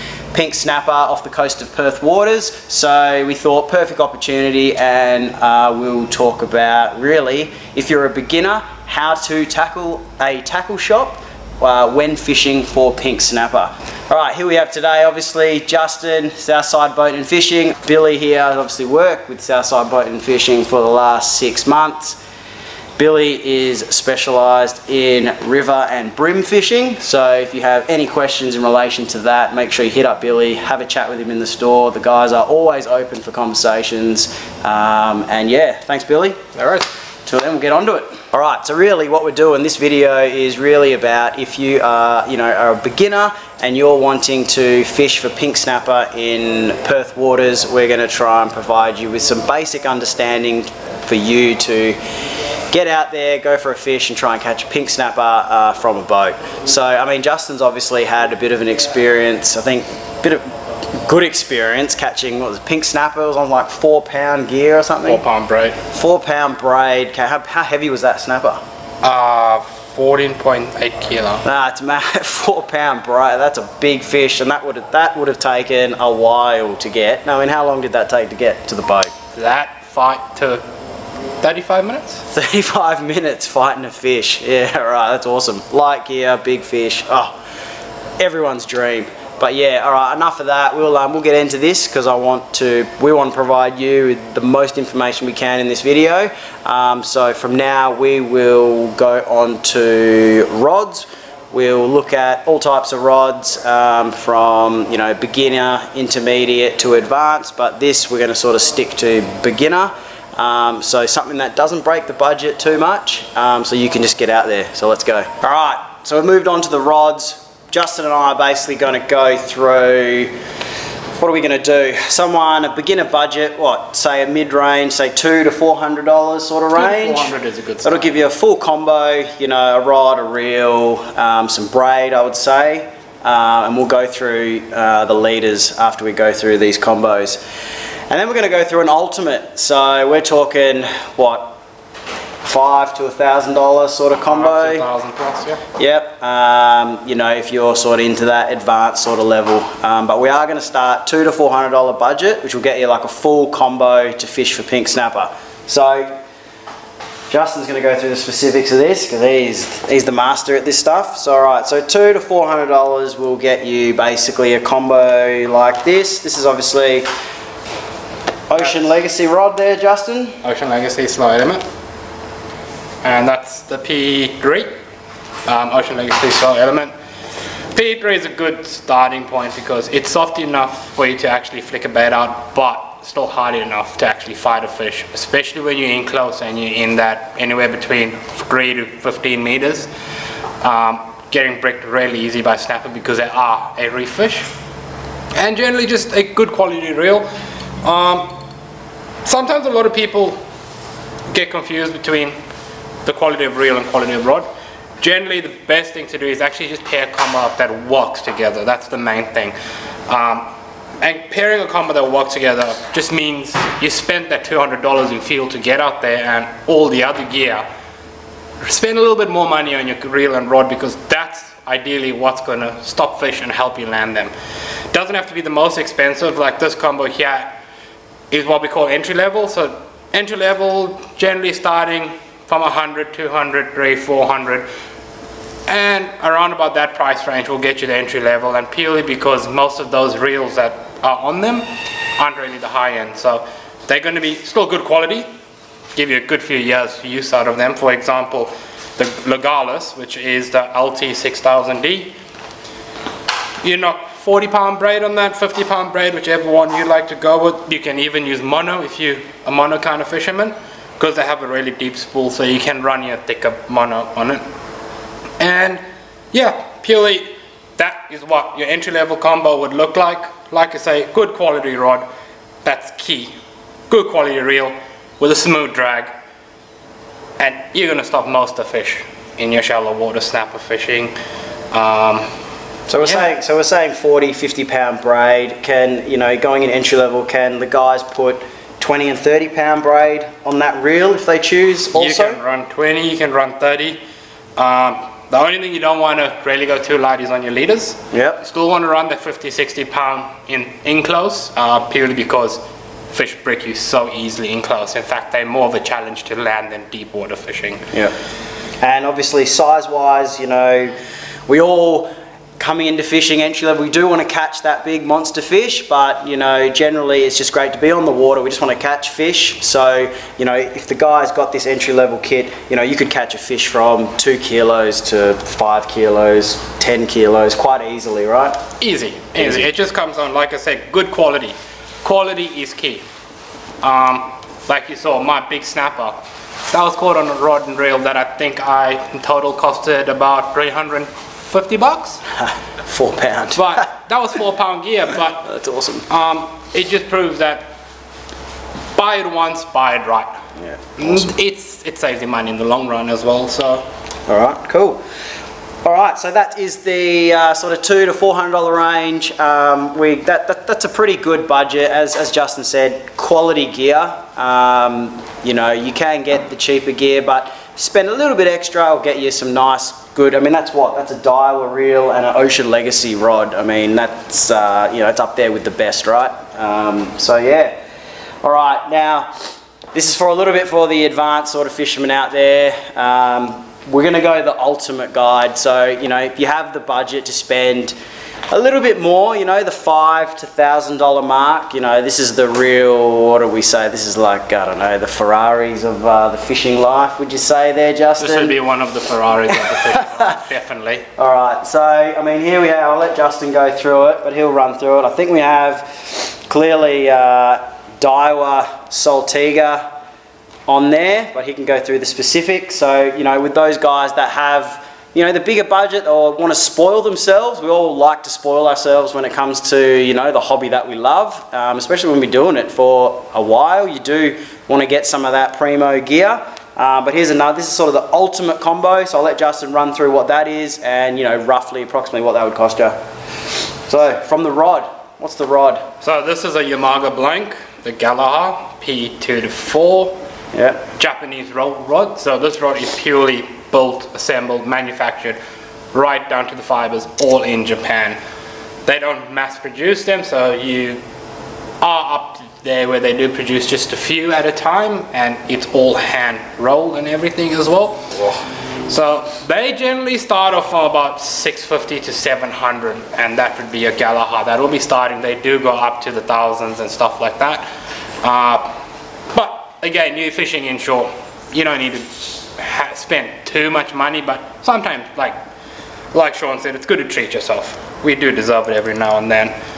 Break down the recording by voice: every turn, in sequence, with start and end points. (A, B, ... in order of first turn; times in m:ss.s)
0:00.3-0:22.2 A
0:23.0-0:52.0 A
0:52.7-1:00.5 A
1:01.0-1:05.2 A
1:05.0-1:05.8 B
1:05.9-1:08.6 A
1:09.0-1:11.4 B
1:11.4-1:19.1 A
1:19.3-1:20.6 B
1:21.4-1:22.2 B
1:22.3-1:27.3 A
1:28.2-2:00.3 A
2:01.1-2:07.3 A
2:06.7-2:08.3 B
2:07.8-2:17.4 A
2:18.1-2:21.6 A
2:22.4-2:24.8 A
2:24.2-2:25.6 B
2:25.8-2:36.2 A
2:37.3-2:47.1 A
2:48.5-2:50.4 A
2:50.4-2:51.6 B
2:53.0-2:54.7 B
2:55.4-2:56.9 B
2:57.7-3:09.9 B
3:10.6-3:14.5 B
3:15.3-3:17.2 B
3:17.8-3:18.3 B
3:19.2-3:20.4 B
3:21.3-3:22.4 B
3:23.0-3:24.5 B
3:25.0-3:29.5 B
3:30.1-3:30.5 B
3:31.0-3:37.6 B
3:38.6-3:44.3 B
3:44.9-3:47.6 B
3:48.3-3:54.7 B
3:55.7-4:05.3 B
4:06.0-4:12.1 B
4:13.6-4:24.4 B
4:25.4-4:32.0 B
4:32.6-4:33.3 B
4:33.9-4:36.1 B
4:37.4-4:41.1 B
4:41.7-4:42.3 B
4:42.9-4:52.4 A
4:51.9-4:54.0 B
4:54.6-5:07.9 B
4:58.1-4:58.4 A
5:08.8-5:11.0 A
5:11.5-5:28.6 A
5:28.8-5:33.0 B
5:29.4-5:29.7 A
5:33.8-5:42.2 B
5:42.4-5:43.8 A
5:43.5-5:45.5 B
5:45.4-5:46.0 A
5:46.1-5:47.7 B
5:48.9-5:50.4 B
5:50.6-5:51.3 A
5:51.0-5:53.8 B
5:54.3-5:55.0 A
5:55.8-6:17.7 A
6:18.4-6:19.3 A
6:19.9-6:28.0 A
6:28.5-6:38.6 A
6:38.2-6:41.1 B
6:39.7-6:40.4 A
6:41.2-6:49.8 A
6:50.7-7:13.0 A
7:13.9-7:15.8 A
7:16.0-7:20.2 B
7:20.5-7:20.8 A
7:21.0-7:25.4 B
7:25.9-7:28.2 B
7:28.8-7:31.0 B
7:31.8-7:38.1 B
7:38.9-7:47.6 B
7:48.2-7:48.8 B
7:49.3-7:55.4 B
7:56.1-7:59.5 B